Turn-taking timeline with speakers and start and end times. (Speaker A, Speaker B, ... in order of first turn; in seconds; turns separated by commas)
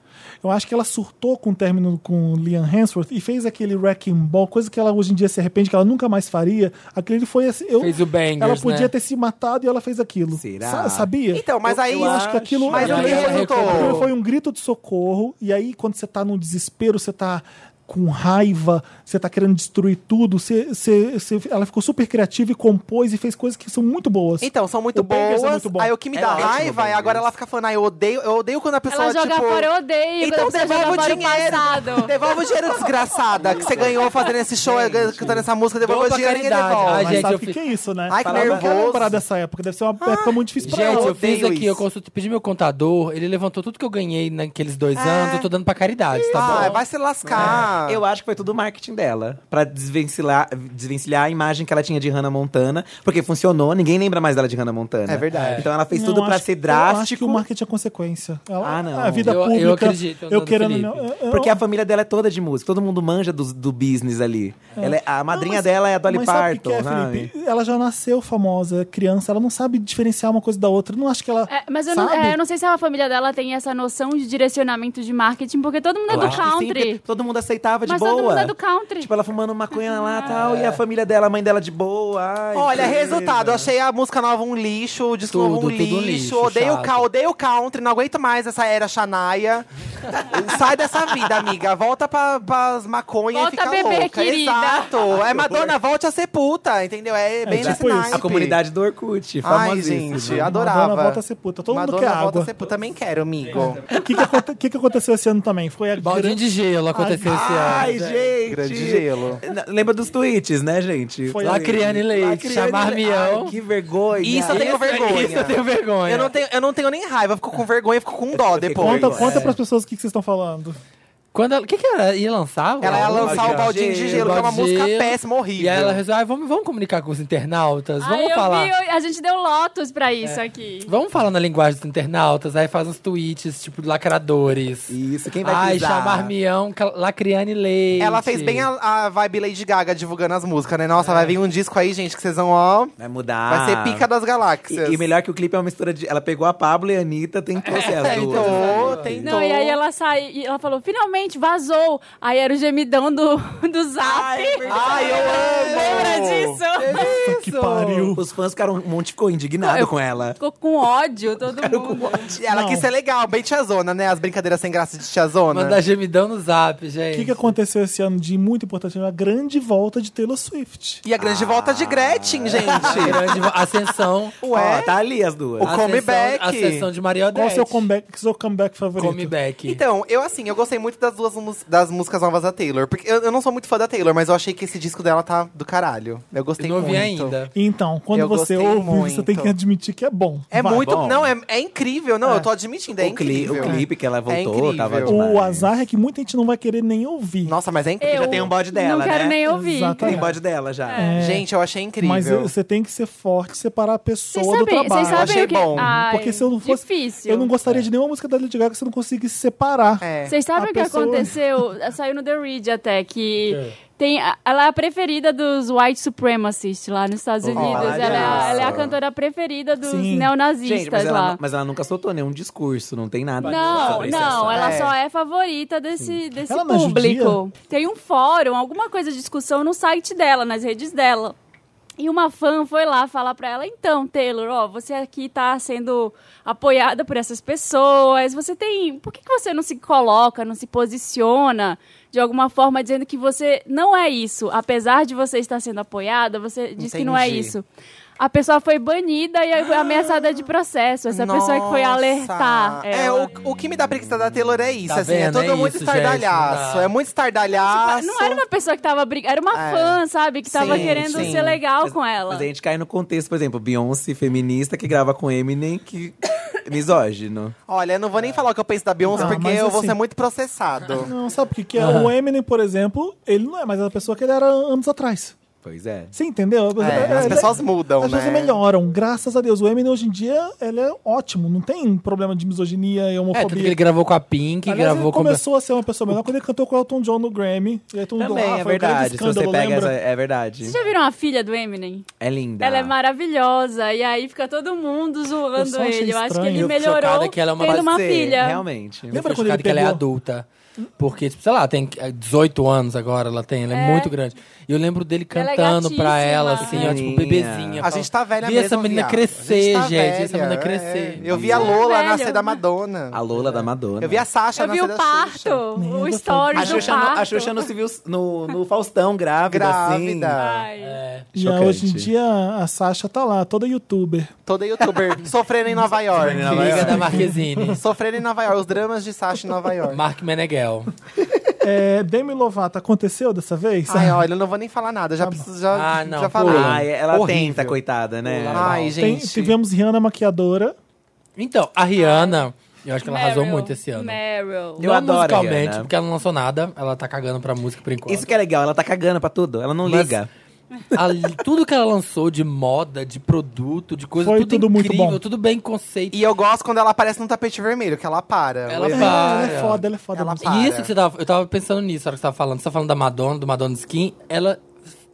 Speaker A: 0.4-25.9, Speaker B: 7.8-8.9, Speaker C: 10.3-13.3, Speaker D: 11.3-14.0, Speaker B: 12.8-14.1, Speaker D: 24.4-29.7, Speaker C: 26.1-27.3, Speaker E: 28.9-32.1, Speaker D: 30.2-37.3, Speaker C: 33.3-35.5, Speaker B: 35.8-37.6, Speaker A: 37.0-41.2, Speaker D: 38.1-39.2, Speaker C: 38.2-38.7, Speaker D: 40.0-41.8, Speaker B: 40.6-46.8, Speaker D: 45.0-45.5, Speaker D: 46.1-48.0, Speaker C: 46.3-57.4, Speaker B: 47.3-47.7, Speaker D: 55.1-55.7, Speaker B: 55.3-55.7, Speaker A: 55.9-61.6, Speaker C: 58.6-59.4, Speaker B: 59.2-61.1, Speaker C: 61.3-67.3, Speaker A: 64.8-72.4, Speaker E: 71.5-77.0, Speaker B: 76.1-76.4, Speaker C: 76.1-83.7, Speaker E: 77.8-79.1, Speaker E: 79.7-80.4, Speaker B: 80.2-80.8, Speaker D: 82.5-98.6, Speaker B: 85.3-87.0, Speaker E: 93.3-95.0, Speaker C: 95.2-95.7, Speaker A: 97.4-98.3, Speaker C: 97.5-100.5, Speaker D: 99.4-103.8, Speaker A: 100.2-102.5, Speaker A: 103.8-107.8, Speaker B: 106.0-108.2, Speaker C: 107.2-114.7, Speaker D: 108.5-109.4, Speaker A: 111.3-111.8, Speaker B: 111.4-113.5, Speaker D: 114.2-119.2, Speaker B: 114.4-116.3, Speaker C: 118.3-119.5, Speaker A: 118.8-120.8, Speaker B: 119.2-119.6, Speaker B: 121.3-128.7, Speaker D: 122.8-126.0, Speaker C: 122.8-124.5, Speaker E: 128.0-130.9, Speaker B: 130.2-138.7, Speaker C: 134.9-136.3, Speaker D: 138.0-142.9, Speaker B: 141.0-141.4, Speaker C: 143.0-144.1, Speaker D: 143.5-145.0, Speaker C: 144.7-149.3, Speaker B: 147.6-149.2, Speaker D: 147.9-149.8, Speaker E: 149.2-157.2, Speaker C: 154.0-156.2, Speaker D: 154.7-156.6, Speaker B: 156.8-158.1, Speaker A: 156.9-158.2, Speaker C: 158.1-160.4, Speaker E: 159.6-162.3, Speaker C: 161.4-162.4, Speaker D: 162.3-165.8, Speaker A: 162.5-162.9, Speaker B: 165.5-167.5, Speaker A: 167.1-171.0, Speaker D: 171.0-173.2, Speaker C: 171.2-173.4, Speaker B: 172.6-174.3, Speaker D: 174.4-174.9, Speaker C: 174.4-175.7, Speaker D: 175.6-176.9, Speaker B: 175.6-177.8, Speaker A: 177.3-179.3, Speaker B: 179.0-179.8, Speaker D: 179.6-187.3, Speaker B: 186.6-187.5, Speaker A: 187.5-190.9, Speaker D: 188.1-189.5, Speaker D: 190.5-195.1, Speaker C: 190.6-191.3, Speaker C: 192.9-195.7, Speaker A: 193.6-193.9, Speaker A: 195.1-197.5, Speaker D: 197.4-198.5, Speaker E: 198.0-200.2, Speaker C: 198.1-199.4, Speaker A: 199.4-200.4, Speaker C: 200.0-201.0, Speaker E: 200.9-201.2, Speaker A: 200.9-201.5, Speaker D: 201.2-202.5, Speaker A: 202.0-211.4, Speaker E: 204.3-207.5, Speaker D: 205.1-205.9, Speaker D: 210.0-210.3, Speaker E: 210.3-221.4, Speaker B: 213.5-213.8, Speaker C: 217.4-218.9, Speaker D: 217.6-218.9, Speaker A: 219.8-220.3, Speaker C: 220.6-224.8, Speaker B: 223.4-224.8, Speaker E: 223.4-231.3, Speaker D: 224.5-224.9, Speaker A: 226.5-227.4, Speaker E: 232.0-247.7, Speaker D: 246.8-247.5, Speaker E: 248.2-253.3, Speaker D: 249.6-250.4, Speaker D: 251.1-258.4, Speaker B: 254.9-256.9, Speaker E: 257.5-262.5, Speaker D: 259.5-261.6, Speaker C: 260.5-267.5, Speaker D: 267.7-271.1, Speaker A: 269.1-270.0, Speaker A: 271.0-275.4, Speaker B: 271.8-272.1, Speaker C: 275.6-276.1, Speaker A: 276.1-283.8, Speaker D: 276.8-278.6, Speaker C: 276.8-277.6, Speaker B: 283.3-285.4, Speaker A: 284.6-289.9, Speaker C: 288.2-290.8, Speaker E: 290.6-292.1, Speaker C: 292.2-292.9, Speaker E: 292.6-298.6, Speaker A: 295.5-296.7, Speaker B: 296.5-298.1, Speaker C: 297.6-299.3, Speaker A: 299.1-300.0, Speaker B: 299.1-300.5, Speaker B: 301.0-311.2, Speaker E: 303.7-304.1, Speaker E: 305.3-307.0, Speaker C: 306.6-307.9, Speaker D: 307.8-313.2, Speaker C: 311.2-311.8, Speaker E: 311.5-312.6, Speaker C: 313.1-314.2, Speaker B: 313.3-313.7, Speaker D: 314.0-315.6, Speaker E: 314.5-317.6, Speaker A: 315.7-316.9, Speaker C: 316.5-320.4, Speaker D: 319.5-320.6, Speaker E: 320.4-321.0, Speaker B: 320.8-321.3, Speaker C: 321.3-322.1, Speaker A: 321.4-324.3, Speaker D: 324.4-330.0, Speaker C: 324.8-325.1, Speaker C: 326.1-327.2, Speaker A: 326.1-327.8, Speaker B: 326.4-327.8, Speaker B: 329.9-330.9, Speaker A: 331.6-334.2, Speaker D: 333.9-336.9, Speaker A: 335.2-335.5, Speaker B: 335.7-337.8, Speaker C: 336.4-338.9, Speaker B: 338.3-339.0, Speaker D: 338.5-339.6, Speaker A: 339.0-340.8, Speaker B: 341.4-344.2, Speaker E: 341.9-342.4, Speaker E: 343.0-344.9, Speaker C: 344.8-345.9, Speaker B: 344.8-348.3, Speaker C: 348.1-350.3, Speaker B: 350.9-356.2, Speaker A: 354.2-355.2, Speaker D: 356.1-360.9, Speaker B: 358.7-359.8, Speaker A: 358.9-360.5, Speaker B: 360.4-364.6